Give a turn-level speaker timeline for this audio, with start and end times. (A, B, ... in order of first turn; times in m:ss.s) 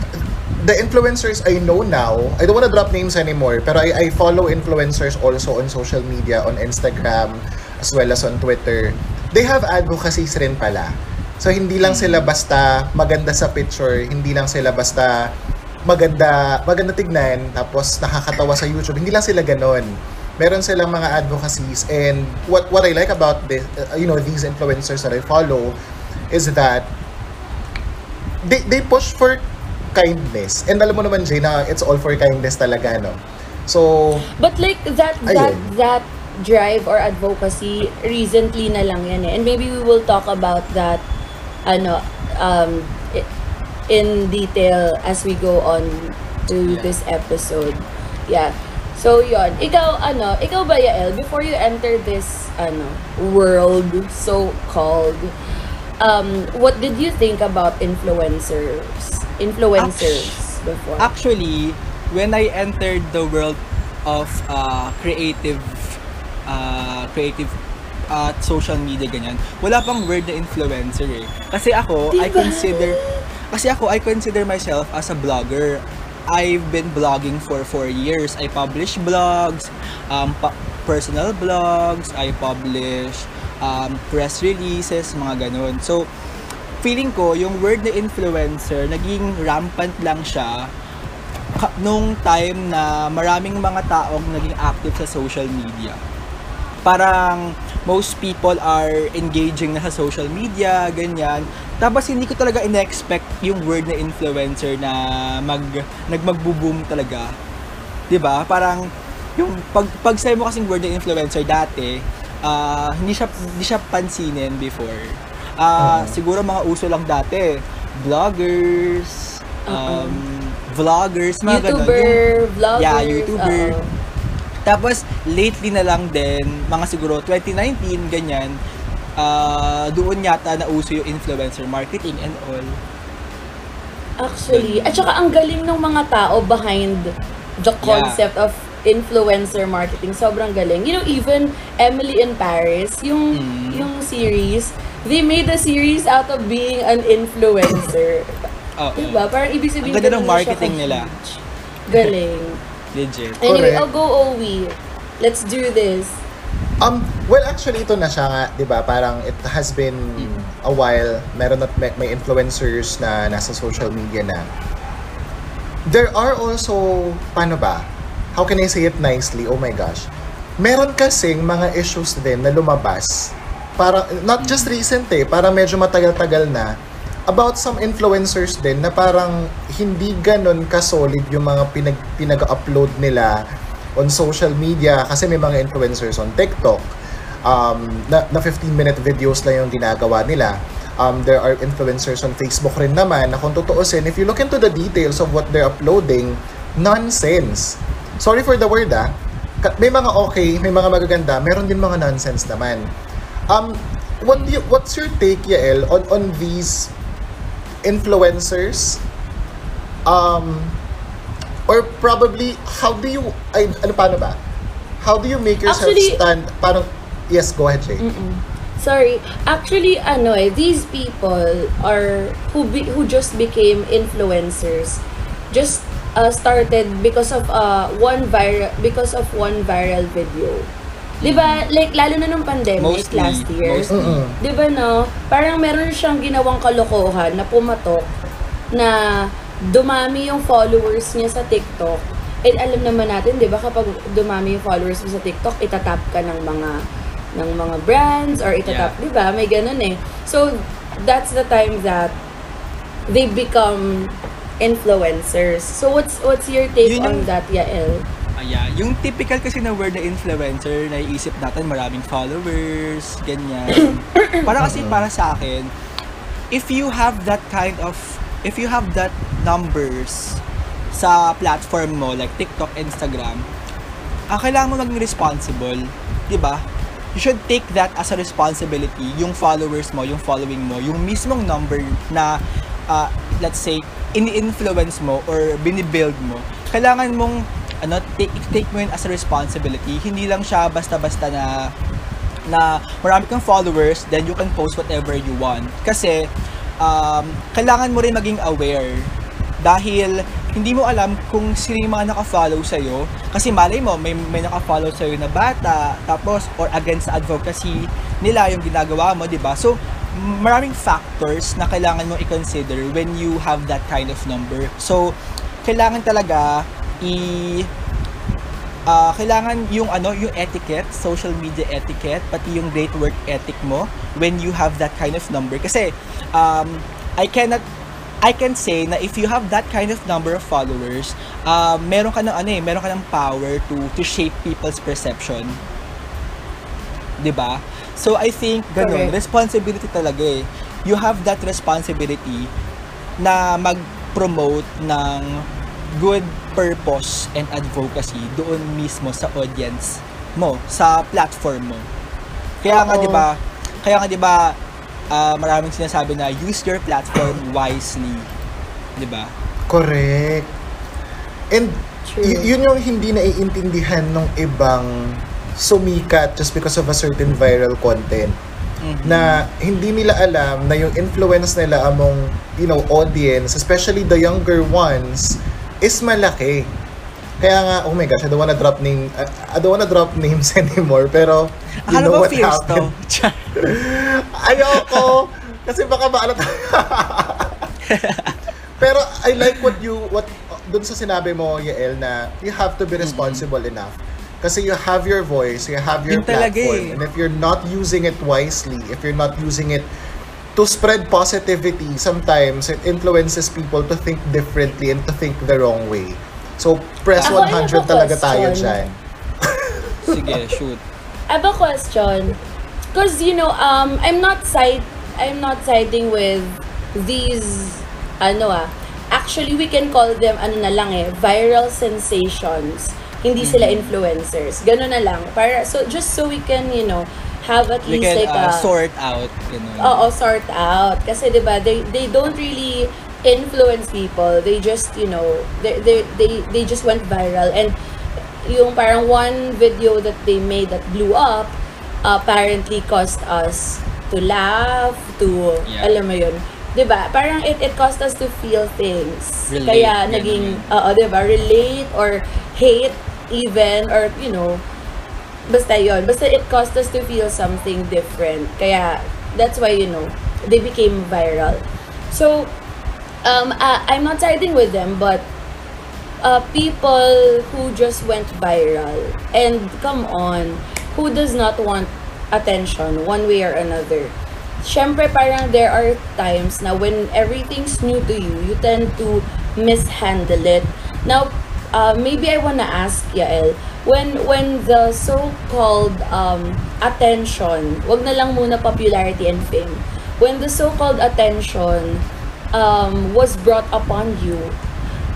0:00.6-0:15.3 A
0:11.8-0:12.3 B
0:15.9-0:25.8 A
0:26.3-0:26.9 A
0:28.4-0:34.3 A
0:34.4-0:41.0 C
0:35.3-0:35.7 A
0:41.6-0:43.3 C
0:43.9-0:55.3 C
0:56.0-1:01.1 C
0:59.8-1:07.5 B
1:08.1-1:13.0 B
1:12.1-1:13.2 C
1:13.5-1:26.0 B
1:26.8-1:30.7 B
1:31.6-1:36.0 B
1:36.8-1:47.3 B
1:48.1-2:02.2 B
1:55.8-1:56.2 A
1:59.7-2:00.2 C
2:01.4-2:03.9 C
2:02.8-2:03.7 B
2:04.6-2:08.5 B
2:09.2-2:12.7 B
2:14.2-2:17.1 C
2:14.5-2:15.1 B
2:17.6-2:28.3 C
2:17.8-2:18.2 B
2:23.3-2:23.9 B
2:28.8-2:29.2 B
2:29.0-2:32.6 C
2:29.8-2:31.1 B
2:32.9-2:33.4 B
2:33.4-2:36.2 C
2:33.4-2:33.8 A
2:36.8-2:44.5 A
2:45.9-2:50.1 A
2:50.6-2:56.7 A
2:54.4-2:54.8 B
2:57.3-3:03.4 A
3:04.0-3:06.9 A
3:07.4-3:22.8 A
3:23.5-3:26.9 A
3:27.8-3:29.0 A
3:30.0-3:30.8 A
3:31.7-3:34.4 A
3:35.0-3:38.0 A
3:35.6-3:36.2 C
3:38.0-3:50.7 C
3:51.2-3:51.6 B
3:51.2-3:58.1 C
3:52.8-3:54.2 B
3:53.9-3:54.4 A
3:59.7-4:06.8 C
4:07.3-4:12.2 C
4:08.6-4:09.0 B
4:13.1-4:18.1 C
4:16.8-4:17.3 B
4:18.4-4:25.7 B
4:24.2-4:24.4 C
4:24.6-4:25.0 A
4:26.5-4:30.4 B
4:30.9-4:33.4 B
4:34.3-4:36.6 B
4:37.1-4:42.4 B
4:42.9-4:51.7 B
4:52.5-4:56.2 B
4:56.8-4:59.1 B
4:59.6-5:17.7 B
5:18.9-5:27.6 B
5:28.2-5:35.6 B
5:37.2-5:42.5 B
5:38.8-5:39.1 C
5:43.2-5:51.9 B
5:52.6-5:54.6 B
5:52.7-5:53.2 C
5:55.1-5:58.3 B
5:59.0-5:59.3 B
5:59.7-6:00.5 A
6:01.5-6:08.4 A
6:02.0-6:02.5 C
6:08.8-6:09.4 B
6:09.0-6:16.7 A
6:17.4-6:22.9 A
6:21.9-6:24.0 B
6:23.6-6:27.7 A
6:24.8-6:25.1 B
6:27.9-6:28.4 B
6:28.8-6:39.9 A
6:33.0-6:33.4 B
6:36.1-6:37.0 B
6:40.5-6:50.4 A
6:47.2-6:47.4 B
6:47.2-6:48.8 C
6:50.0-6:50.8 B
6:51.3-6:52.4 C
6:52.9-7:08.7 C
7:03.4-7:03.9 B
7:07.9-7:10.0 B
7:09.8-7:17.8 C
7:18.4-7:34.6 C
7:25.7-7:26.0 B
7:29.5-7:30.7 B
7:35.5-7:42.5 C
7:43.2-7:45.3 C
7:46.2-8:14.6 C